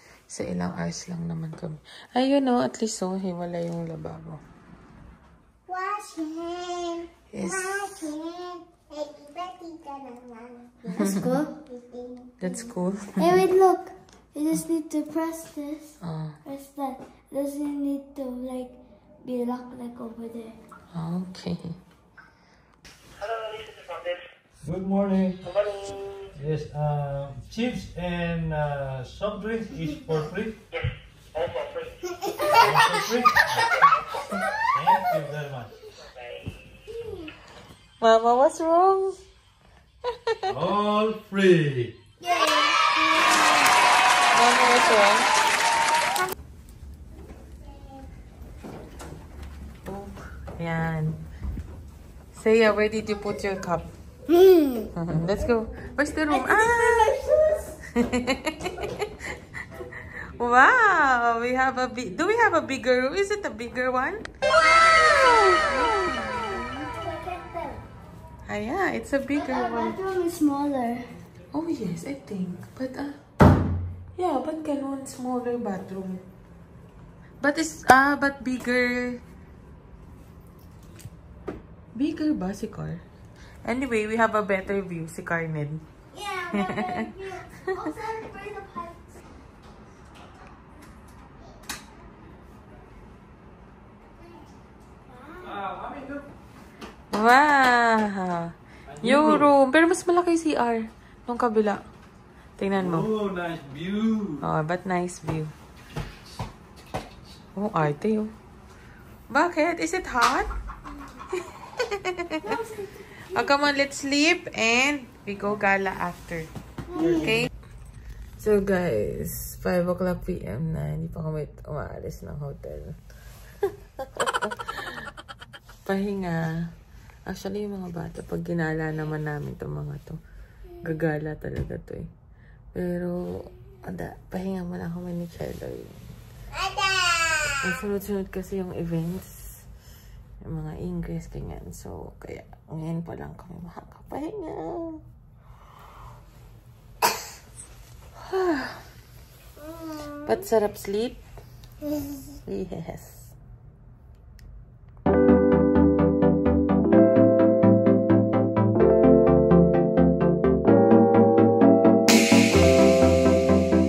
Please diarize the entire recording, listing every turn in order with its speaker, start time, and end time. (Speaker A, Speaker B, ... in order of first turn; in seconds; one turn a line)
Speaker A: 0.3-4.4
Speaker B: 5.7-12.2
Speaker A: 7.3-7.8
Speaker A: 10.9-11.4
Speaker A: 12.4-13.4
Speaker B: 13.2-15.9
Speaker A: 16.0-16.4
Speaker B: 16.5-18.7
Speaker B: 19.3-20.5
Speaker A: 20.9-21.8
Speaker C: 24.6-25.6
Speaker C: 26.4-30.6
Speaker C: 32.5-33.9
Speaker C: 34.7-35.7
Speaker A: 38.0-39.1
Speaker A: 40.2-40.5
Speaker C: 40.5-41.9
Speaker B: 42.2-43.1
Speaker A: 44.3-45.3
Speaker A: 49.9-51.2
Speaker A: 52.3-53.9
Speaker B: 54.4-54.8
Speaker A: 54.9-57.1
Speaker B: 56.4-57.7
Speaker A: 58.0-59.1
Speaker A: 60.4-64.2
Speaker B: 65.0-65.5
Speaker A: 65.2-66.2
Speaker B: 66.3-67.8
Speaker A: 68.5-70.0
Speaker B: 69.5-71.0
Speaker A: 71.5-73.2
Speaker A: 74.2-76.2
Speaker A: 77.4-79.2
Speaker A: 82.0-83.0
Speaker A: 83.6-85.8
Speaker B: 86.2-88.9
Speaker A: 86.6-87.0
Speaker C: 95.4-96.2
Speaker A: 97.1-101.8
Speaker C: 98.9-99.5
Speaker A: 102.6-103.1
Speaker C: 102.8-104.4
Speaker A: 104.4-105.5
Speaker A: 107.5-108.3
Speaker A: 109.3-110.5
Speaker A: 111.9-112.5
Speaker A: 113.3-116.5
Speaker B: 116.9-117.2
Speaker C: 117.0-117.3
Speaker A: 117.2-117.5
Speaker A: 118.4-123.0
Speaker A: 123.6-124.9
Speaker A: 125.8-126.7
Speaker A: 127.3-130.2
Speaker A: 130.8-132.1
Speaker A: 132.7-136.0
Speaker A: 137.6-139.6
Speaker A: 140.4-145.0
Speaker A: 148.2-148.8
Speaker A: 150.2-151.2
Speaker A: 152.4-153.3